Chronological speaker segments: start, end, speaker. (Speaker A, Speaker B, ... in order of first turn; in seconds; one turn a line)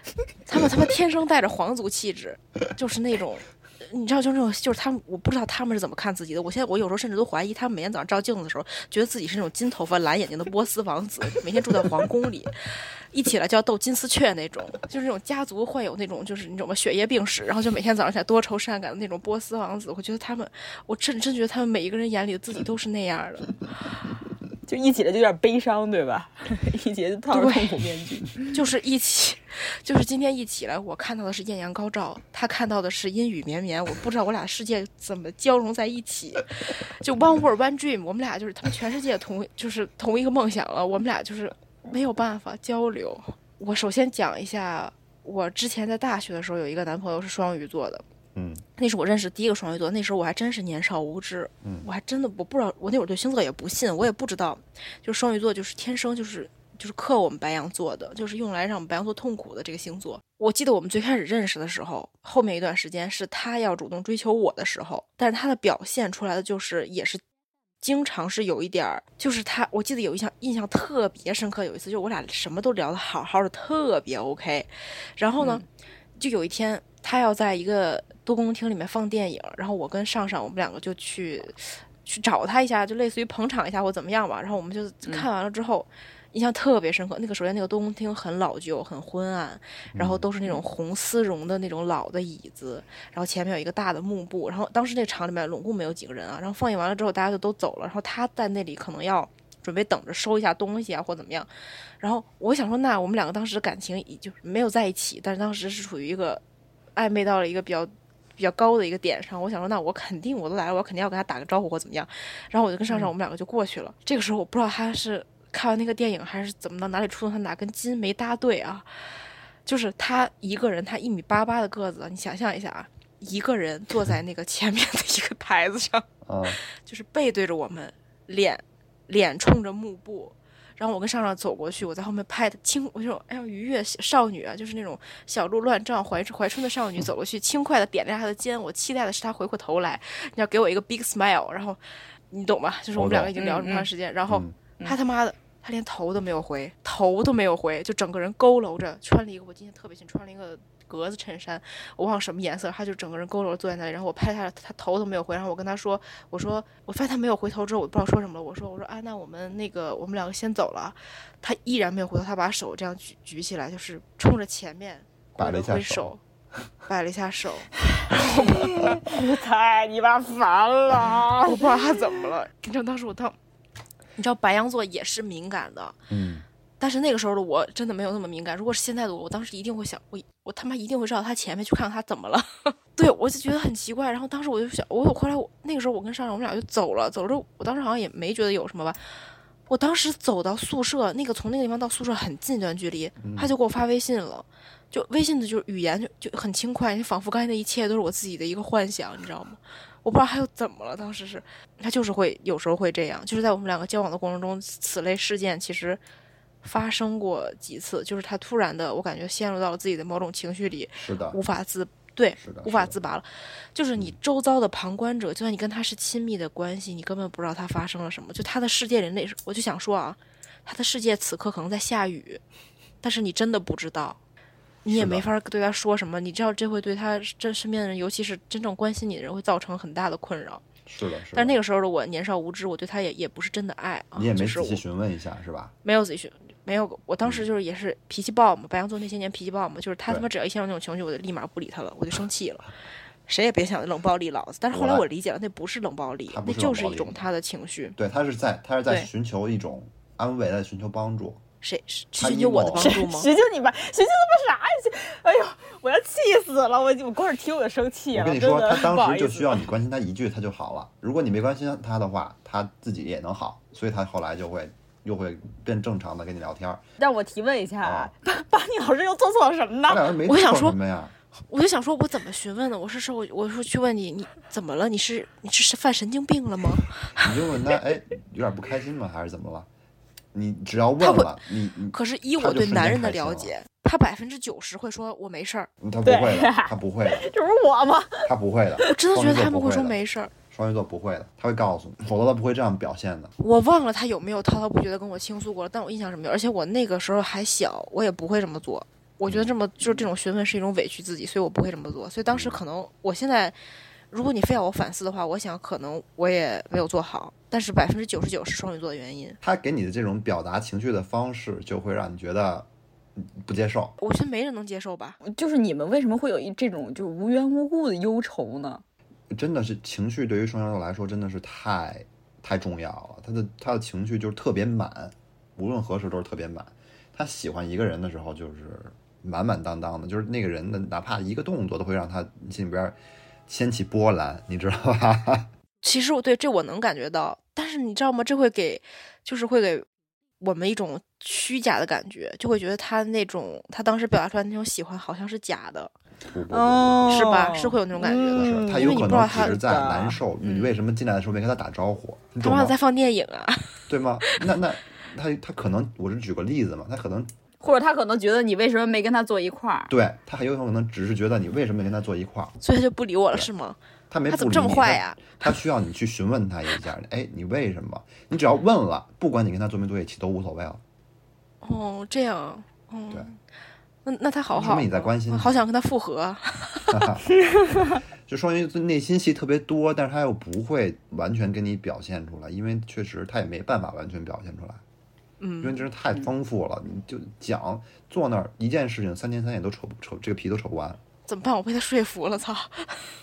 Speaker A: 0.5-23.6
Speaker B: 24.7-28.5
Speaker A: 27.3-27.7
Speaker A: 28.5-48.0
Speaker C: 48.3-48.6
Speaker A: 48.8-67.2
Speaker A: 67.8-75.6
Speaker A: 76.2-101.5
Speaker C: 89.9-90.2
Speaker A: 102.0-106.4
Speaker A: 106.9-118.9
Speaker A: 119.7-166.2
Speaker C: 126.2-126.6
Speaker C: 142.9-143.3
Speaker B: 143.3-143.9
Speaker C: 144.3-144.5
Speaker C: 165.3-166.1
Speaker A: 166.8-168.8
Speaker B: 168.2-171.7
Speaker A: 171.4-173.3
Speaker A: 174.2-176.0
Speaker C: 176.1-176.4
Speaker A: 176.8-189.0
Speaker A: 189.7-206.0
Speaker C: 193.2-193.5
Speaker A: 206.6-222.4
Speaker C: 211.0-211.4
Speaker C: 212.4-213.0
Speaker A: 223.0-224.2
Speaker A: 224.8-230.6
Speaker C: 224.9-225.3
Speaker C: 230.8-231.6
Speaker A: 231.3-234.8
Speaker C: 234.2-235.7
Speaker A: 235.8-242.7
Speaker A: 243.3-248.0
Speaker C: 244.7-245.1
Speaker C: 246.3-247.2
Speaker C: 248.0-251.4
Speaker A: 251.6-253.3
Speaker C: 252.2-252.9
Speaker B: 252.7-259.7
Speaker C: 258.1-266.8
Speaker B: 267.0-270.1
Speaker C: 267.8-268.1
Speaker C: 269.9-271.1
Speaker A: 270.2-270.8
Speaker A: 271.5-277.3
Speaker C: 277.1-279.7
Speaker C: 280.3-283.5
Speaker A: 281.0-285.7
Speaker C: 285.8-287.3
Speaker B: 286.0-288.3
Speaker C: 288.2-293.3
Speaker A: 288.8-290.3
Speaker A: 293.4-303.6
Speaker C: 299.3-299.5
Speaker C: 302.3-302.6
Speaker A: 304.1-309.4
Speaker C: 309.4-314.0
Speaker A: 314.0-315.2
Speaker B: 315.2-318.8
Speaker C: 319.3-335.5
Speaker A: 335.8-339.9
Speaker A: 340.4-345.9
Speaker C: 346.2-347.3
Speaker B: 346.5-350.2
Speaker A: 347.1-349.6
Speaker C: 348.3-352.8
Speaker A: 350.4-350.8
Speaker A: 352.4-354.5
Speaker C: 353.9-357.3
Speaker B: 357.6-359.9
Speaker C: 359.9-362.6
Speaker A: 362.6-365.5
Speaker C: 364.1-370.8
Speaker A: 371.6-373.4
Speaker A: 374.0-377.1
Speaker C: 374.5-375.6
Speaker C: 376.9-377.2
Speaker B: 377.5-378.0
Speaker C: 378.2-384.8
Speaker A: 385.4-385.9
Speaker C: 385.6-391.0
Speaker A: 391.3-393.1